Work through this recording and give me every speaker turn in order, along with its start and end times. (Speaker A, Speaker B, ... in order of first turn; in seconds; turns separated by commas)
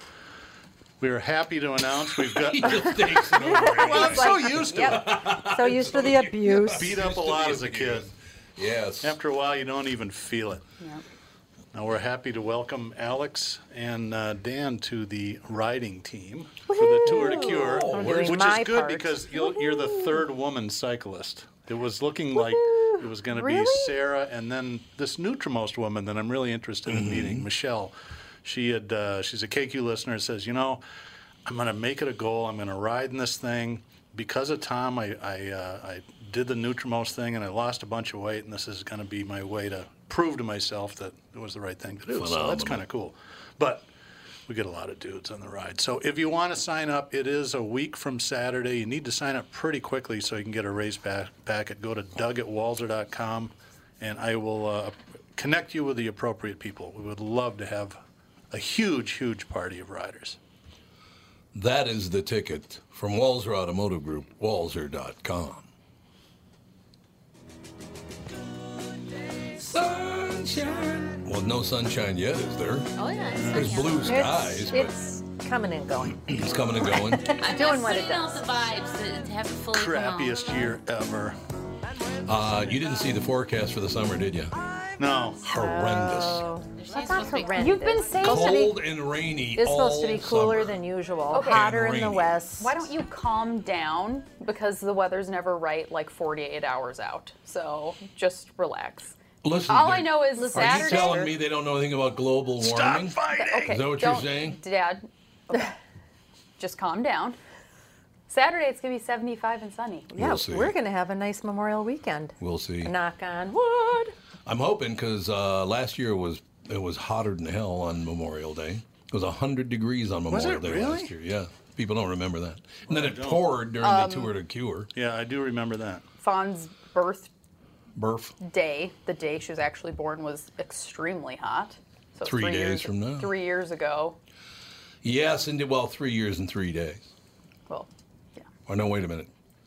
Speaker A: 1.0-5.1, Speaker B: 2.1-9.2, Speaker C: 3.3-7.0, Speaker A: 6.7-8.1, Speaker A: 9.0-10.7, Speaker A: 11.7-27.9, Speaker C: 16.7-20.2, Speaker B: 17.1-18.5, Speaker C: 22.4-24.0, Speaker B: 26.9-27.5, Speaker A: 28.4-30.8, Speaker A: 31.4-43.9, Speaker B: 42.1-42.9, Speaker A: 44.5-58.0, Speaker A: 58.5-60.4, Speaker B: 61.5-65.7, Speaker B: 69.6-73.0, Speaker D: 73.0-74.1, Speaker B: 73.5-74.9, Speaker C: 74.0-76.3, Speaker B: 76.0-77.3, Speaker C: 77.0-78.5, Speaker D: 77.3-80.6, Speaker A: 79.7-81.4, Speaker B: 82.3-84.5, Speaker A: 85.0-85.4, Speaker C: 85.4-88.8, Speaker B: 85.5-86.5, Speaker D: 86.8-88.0, Speaker E: 87.5-88.7, Speaker B: 88.2-90.8, Speaker C: 89.5-92.8, Speaker E: 91.3-91.7, Speaker B: 91.5-92.4, Speaker E: 92.6-99.2, Speaker B: 99.4-104.6, Speaker E: 99.7-101.3, Speaker C: 100.3-101.3, Speaker A: 102.6-103.7, Speaker E: 103.3-105.7, Speaker E: 106.6-107.4, Speaker E: 108.3-110.1, Speaker C: 110.1-114.1, Speaker B: 110.2-110.7, Speaker B: 112.4-112.9, Speaker B: 114.5-124.9, Speaker A: 120.3-121.1, Speaker A: 122.9-123.5, Speaker E: 123.8-124.3, Speaker A: 124.9-126.1, Speaker E: 126.2-127.3, Speaker B: 128.0-128.3, Speaker E: 128.4-134.2, Speaker B: 132.2-133.3, Speaker B: 135.0-137.1, Speaker E: 137.7-138.5, Speaker B: 138.7-139.3